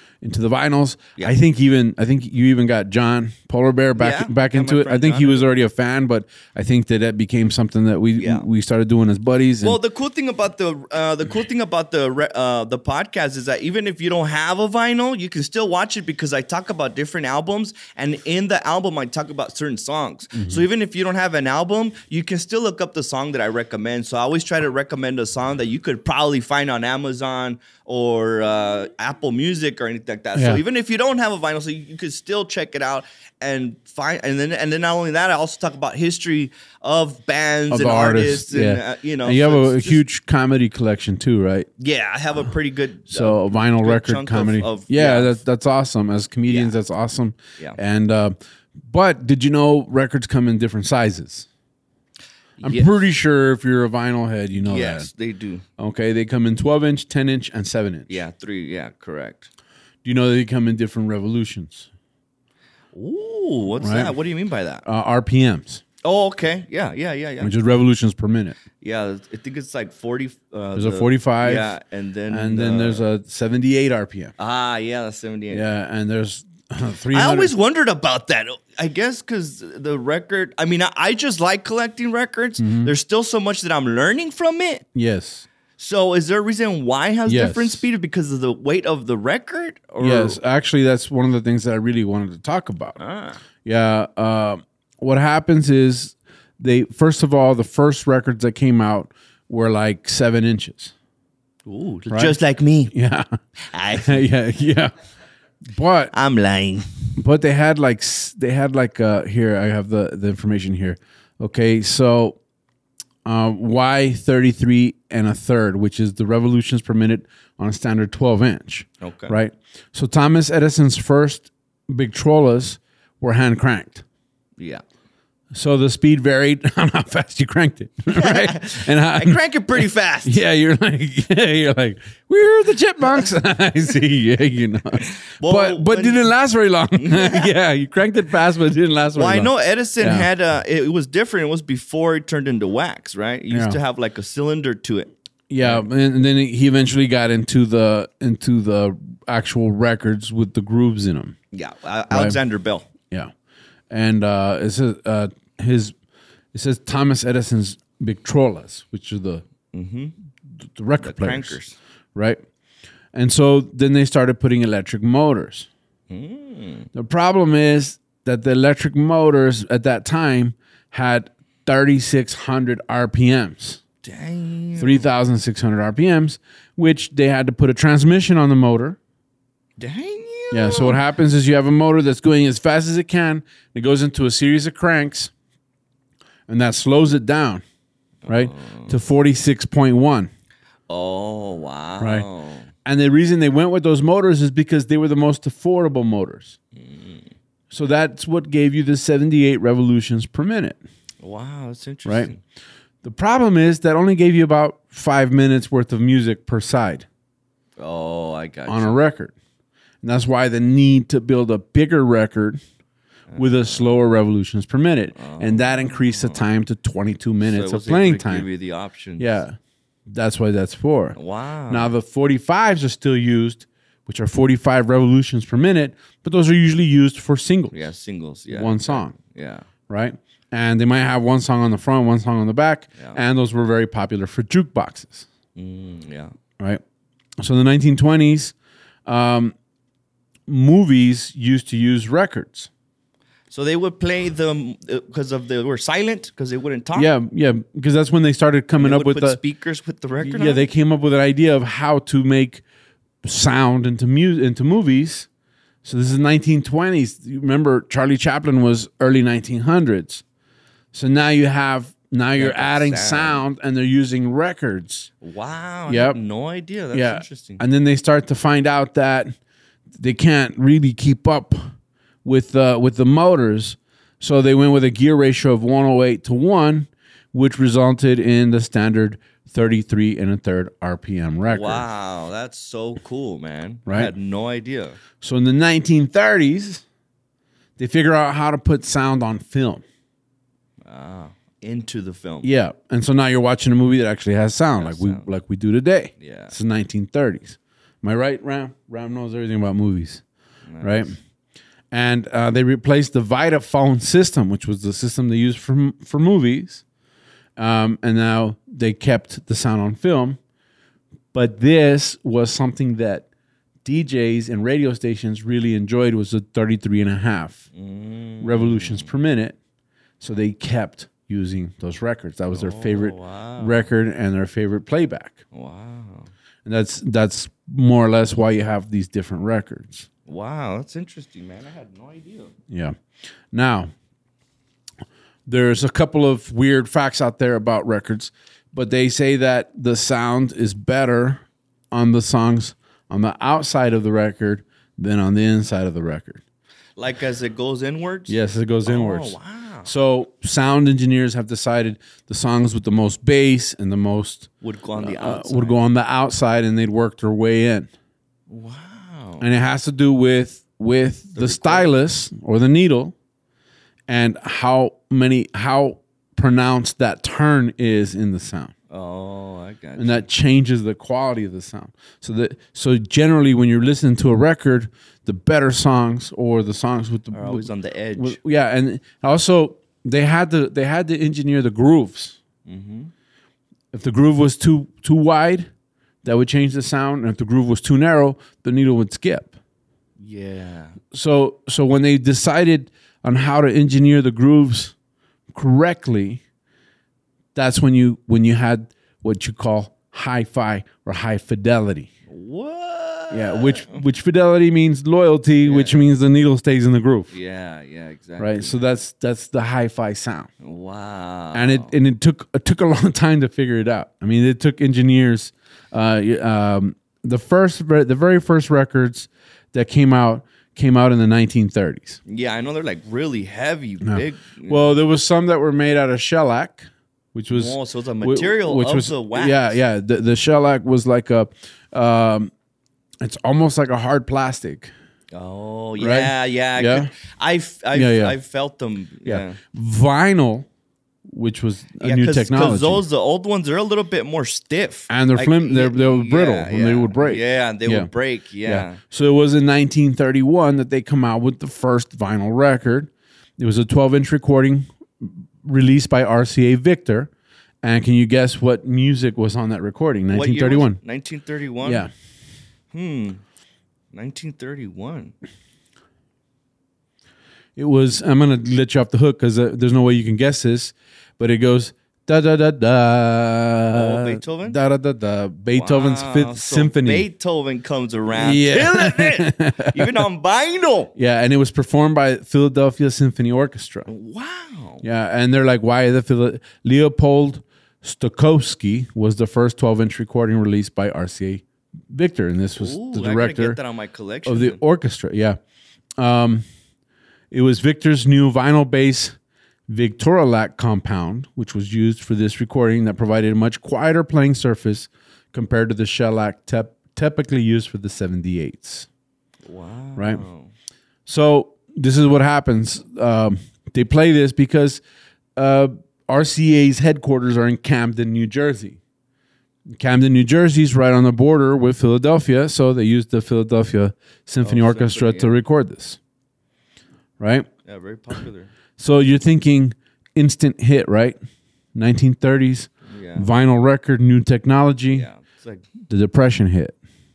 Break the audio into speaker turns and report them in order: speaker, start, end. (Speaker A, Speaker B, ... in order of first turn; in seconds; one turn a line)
Speaker A: 0.2-9.8
Speaker B: 4.0-5.5
Speaker B: 8.2-8.5
Speaker B: 9.6-40.0
Speaker A: 20.3-20.6
Speaker A: 30.3-30.6
Speaker A: 37.7-41.7
Speaker B: 41.8-45.4
Speaker A: 43.1-51.5
Speaker B: 46.5-46.8
Speaker B: 52.6-52.9
Speaker A: 52.6-55.1
Speaker B: 54.5-55.6
Speaker A: 55.8-58.2
Speaker B: 58.1-59.5
Speaker A: 60.0-61.9
Speaker B: 62.9-64.8
Speaker A: 63.8-64.2
Speaker A: 64.8-65.8
Speaker B: 66.0-67.5
Speaker A: 67.4-68.6
Speaker B: 68.8-73.0
Speaker A: 70.7-71.8
Speaker A: 72.3-74.3
Speaker B: 74.4-75.7
Speaker A: 75.5-77.5
Speaker B: 77.1-84.8
Speaker A: 82.6-82.9
Speaker A: 84.9-85.5
Speaker B: 85.8-90.4
Speaker A: 87.2-87.8
Speaker A: 90.0-93.0
Speaker B: 93.0-93.4
Speaker A: 93.6-100.9
Speaker B: 101.7-102.9
Speaker A: 102.1-102.4
Speaker A: 102.9-103.3
Speaker B: 103.7-104.2
Speaker A: 103.9-104.9
Speaker A: 105.7-106.1
Speaker B: 106.1-106.9
Speaker A: 107.2-112.4
Speaker A: 113.2-124.0
Speaker B: 119.0-119.4
Speaker A: 125.5-140.3
Speaker B: 128.1-130.4
Speaker B: 135.0-136.3
Speaker B: 137.0-137.5
Speaker B: 139.1-145.8
Speaker A: 143.5-143.8
Speaker A: 145.5-151.3
Speaker B: 151.5-152.9
Speaker A: 152.1-152.4
Speaker A: 153.9-155.9
Speaker A: 156.5-159.4
Speaker B: 159.7-160.1
Speaker A: 160.7-161.6
Speaker B: 161.0-161.8
Speaker A: 162.1-162.4
Speaker A: 163.1-165.7
Speaker B: 166.1-166.9
Speaker A: 166.9-173.8
Speaker B: 174.0-175.0
Speaker A: 174.8-179.0
Speaker B: 179.8-181.0
Speaker A: 180.5-185.3
Speaker A: 186.5-187.6
Speaker B: 188.2-188.9
Speaker A: 188.3-190.3
Speaker B: 190.9-192.7
Speaker A: 192.0-192.3
Speaker A: 192.8-196.6
Speaker B: 196.8-197.3
Speaker A: 197.7-200.8
Speaker B: 201.2-202.4
Speaker A: 202.0-202.3
Speaker A: 203.0-207.1
Speaker B: 207.8-209.0
Speaker A: 208.7-209.3
Speaker A: 210.0-212.6
Speaker B: 213.3-214.1
Speaker A: 213.3-218.5
Speaker B: 215.1-216.4
Speaker B: 217.4-219.4
Speaker A: 219.2-219.5
Speaker A: 220.1-221.2
Speaker B: 221.2-221.9
Speaker A: 221.7-227.8
Speaker B: 227.7-229.7
Speaker A: 228.5-229.2
Speaker A: 229.9-235.3
Speaker B: 235.5-236.3
Speaker A: 237.4-238.5
Speaker A: 239.1-239.6
Speaker A: 240.5-242.7
Speaker B: 243.5-247.1
Speaker A: 246.9-249.4
Speaker B: 248.8-250.7
Speaker A: 250.2-252.6
Speaker A: 253.2-255.3
Speaker A: 255.8-260.2
Speaker A: 260.9-265.1
Speaker B: 262.3-263.4
Speaker B: 265.2-267.6
Speaker A: 265.9-266.2
Speaker A: 266.9-269.3
Speaker A: 270.0-271.6
Speaker A: 272.2-281.8
Speaker B: 281.5-285.0
Speaker A: 283.9-284.1
Speaker A: 285.2-286.8
Speaker A: 287.8-289.8
Speaker B: 290.8-292.5
Speaker A: 292.4-300.2
Speaker B: 294.7-295.3
Speaker B: 296.2-296.5
Speaker B: 300.7-301.1
Speaker A: 300.8-301.1
Speaker A: 301.9-306.8
Speaker A: 307.6-310.4
Speaker A: 311.3-313.3
Speaker A: 313.8-317.6
Speaker B: 317.7-319.1
Speaker A: 318.4-319.6
Speaker A: 320.2-325.4
Speaker B: 322.5-323.9
Speaker B: 325.5-326.3
Speaker A: 326.6-330.1
Speaker B: 330.2-332.5
Speaker A: 332.7-332.9
Speaker A: 333.5-333.9
Speaker A: 335.5-346.4
Speaker B: 347.0-349.9
Speaker A: 348.3-357.9
Speaker B: 354.6-355.8
Speaker B: 358.5-359.4
Speaker A: 359.4-363.1
Speaker B: 361.3-361.9
Speaker A: 364.1-368.7
Speaker B: 368.9-370.2
Speaker A: 370.0-382.4
Speaker B: 377.3-378.4
Speaker B: 382.6-383.1
Speaker A: 383.9-385.7
Speaker A: 386.2-389.5
Speaker B: 390.2-391.0
Speaker A: 391.1-394.9
Speaker A: 395.5-396.4
Speaker A: 397.5-402.1
Speaker B: 402.3-404.0
Speaker A: 403.3-407.3
Speaker B: 405.6-406.1
Speaker B: 407.3-408.8
Speaker A: 408.4-410.5
Speaker B: 410.6-412.0
Speaker A: 411.5-422.2
Speaker B: 422.2-425.0
Speaker A: 424.0-432.5
Speaker B: 427.5-429.8
Speaker A: 433.2-434.9
Speaker B: 435.3-439.6
Speaker A: 436.0-437.1
Speaker A: 437.9-438.4
Speaker A: 439.2-440.7
Speaker A: 441.3-443.0
Speaker B: 442.0-449.0
Speaker A: 445.1-448.1
Speaker A: 448.6-457.3
Speaker A: 457.8-461.0
Speaker B: 460.3-462.1
Speaker A: 461.8-462.1
Speaker B: 462.9-463.4
Speaker B: 464.1-465.3
Speaker A: 467.8-477.3
Speaker B: 473.9-474.8
Speaker B: 475.7-481.1
Speaker A: 478.3-480.1
Speaker A: 481.1-484.1
Speaker B: 484.1-485.0
Speaker A: 485.0-493.8
Speaker B: 492.7-494.8
Speaker A: 494.4-495.6
Speaker A: 496.2-496.6
Speaker A: 497.5-499.4
Speaker A: 499.9-509.1
Speaker B: 509.6-510.7
Speaker A: 510.1-510.4
Speaker A: 511.3-515.0
Speaker A: 515.5-519.0
Speaker A: 520.0-526.2
Speaker B: 524.6-525.6
Speaker A: 527.4-527.7
Speaker B: 527.8-528.7
Speaker A: 529.0-531.4
Speaker A: 531.9-535.3
Speaker B: 533.1-533.5
Speaker B: 535.1-535.9
Speaker A: 536.1-537.0